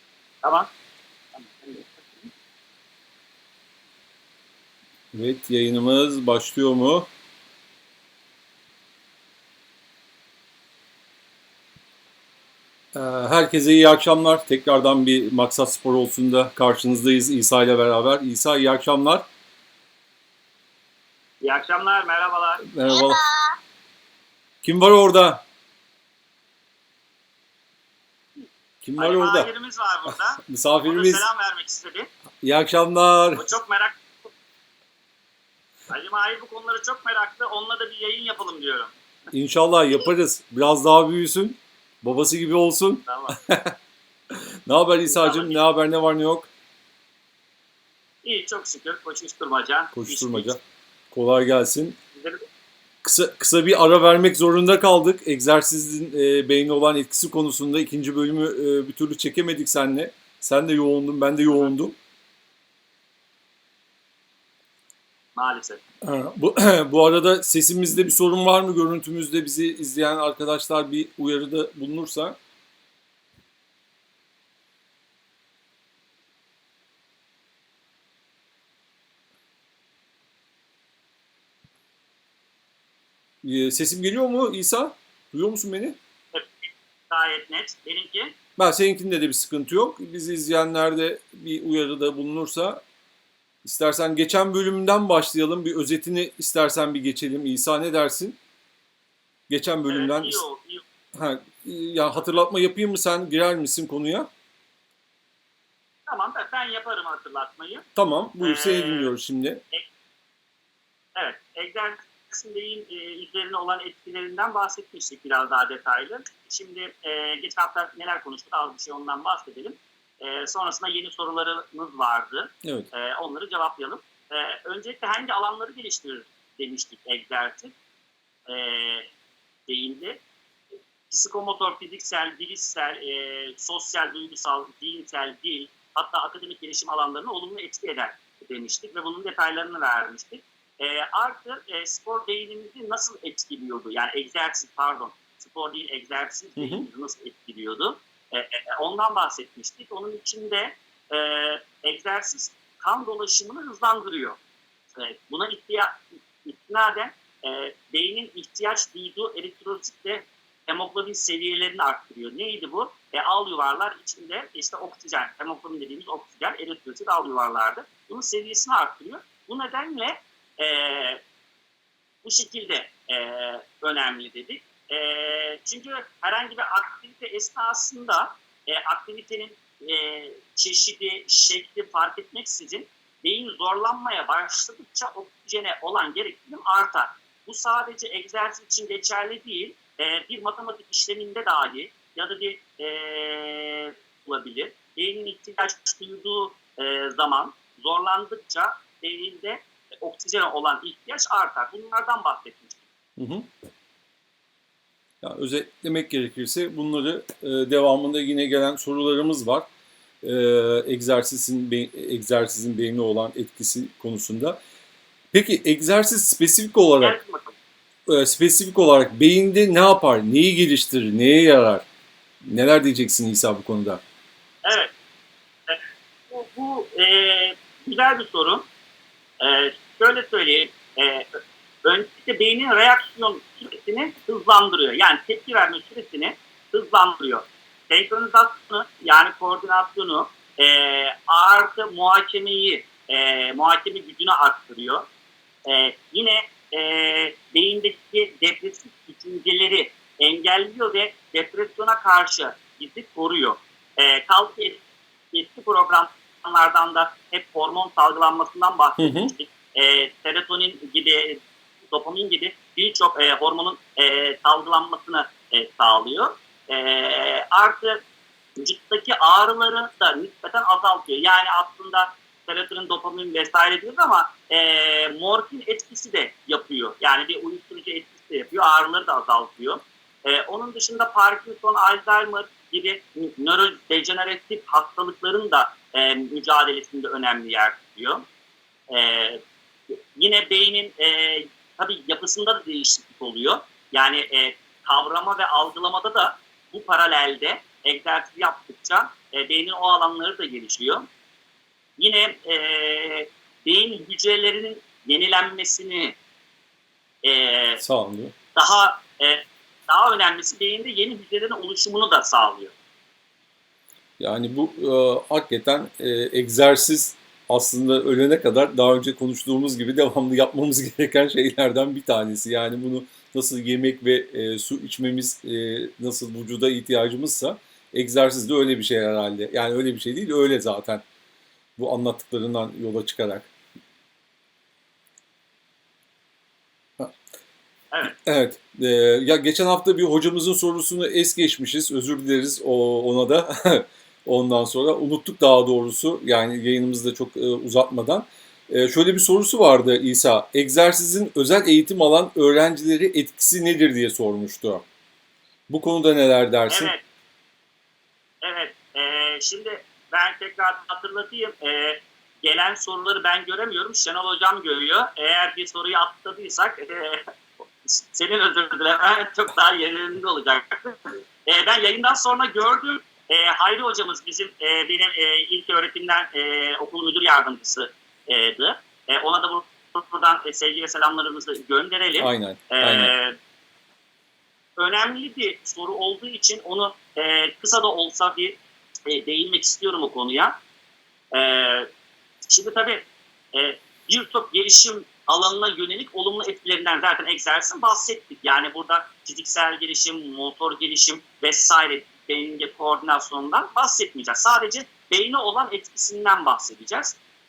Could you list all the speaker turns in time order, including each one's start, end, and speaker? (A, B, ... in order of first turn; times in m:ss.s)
0:00.4-0:00.7 A
0:01.4-0:02.3 A
0:05.1-0:07.1 B
0:13.0-0:19.2 B
0:21.4-0:22.6 A
0:22.6-0:23.2 B
0:24.6-0:25.4 B
0:28.8-0:29.5 B
0:29.0-0:32.1 A
0:30.4-0:31.2 B
0:32.4-0:33.5 B
0:33.4-0:34.3 A
0:35.9-0:38.9 A
0:39.3-0:43.8 B
0:43.1-0:43.4 A
0:44.7-0:46.5 B
0:45.1-0:45.6 A
0:48.2-0:50.6 A
0:49.9-0:50.6 B
0:51.1-0:52.0 B
0:52.2-0:52.4 A
0:53.0-1:02.0 B
1:05.4-1:05.8 A
1:06.0-1:12.4 B
1:23.4-1:26.0 B
1:26.3-1:28.4 A
1:28.6-1:32.8 B
1:33.6-1:38.4 B
1:39.5-1:40.4 B
1:39.9-1:40.8 A
1:41.2-1:44.3 B
1:46.1-1:47.9 A
1:48.0-1:49.6 B
1:48.4-1:49.1 A
1:51.2-2:07.8 A
2:02.6-2:02.9 B
2:08.5-2:09.1 A
2:09.7-2:10.2 A
2:11.1-2:34.4 A
2:26.6-2:26.9 B
2:35.0-2:51.2 A
2:52.2-3:22.8 A
3:23.2-3:23.5 B
3:25.2-3:29.7 B
3:30.2-3:34.6 B
3:35.3-3:37.2 B
3:37.0-3:37.6 A
3:38.1-3:41.9 B
3:42.4-3:44.0 B
3:44.6-3:44.9 A
3:45.7-3:48.7 A
3:49.4-4:05.0 A
4:05.7-4:28.0 A
4:19.0-4:19.3 B
4:28.6-4:48.3 A
4:48.9-5:01.1 A
5:02.0-5:06.2 A
5:07.2-5:07.8 A
5:07.8-5:08.3 B
5:08.6-5:12.7 A
5:14.2-5:31.0 B
5:31.8-5:33.5 B
5:38.1-5:54.8 B
5:55.7-5:56.9 B
5:56.7-5:57.0 A
5:58.4-6:07.3 A
6:07.8-6:23.4 A
6:22.2-6:23.1 B
6:24.8-6:30.6 A
6:31.3-6:31.9 A
6:32.4-6:47.2 A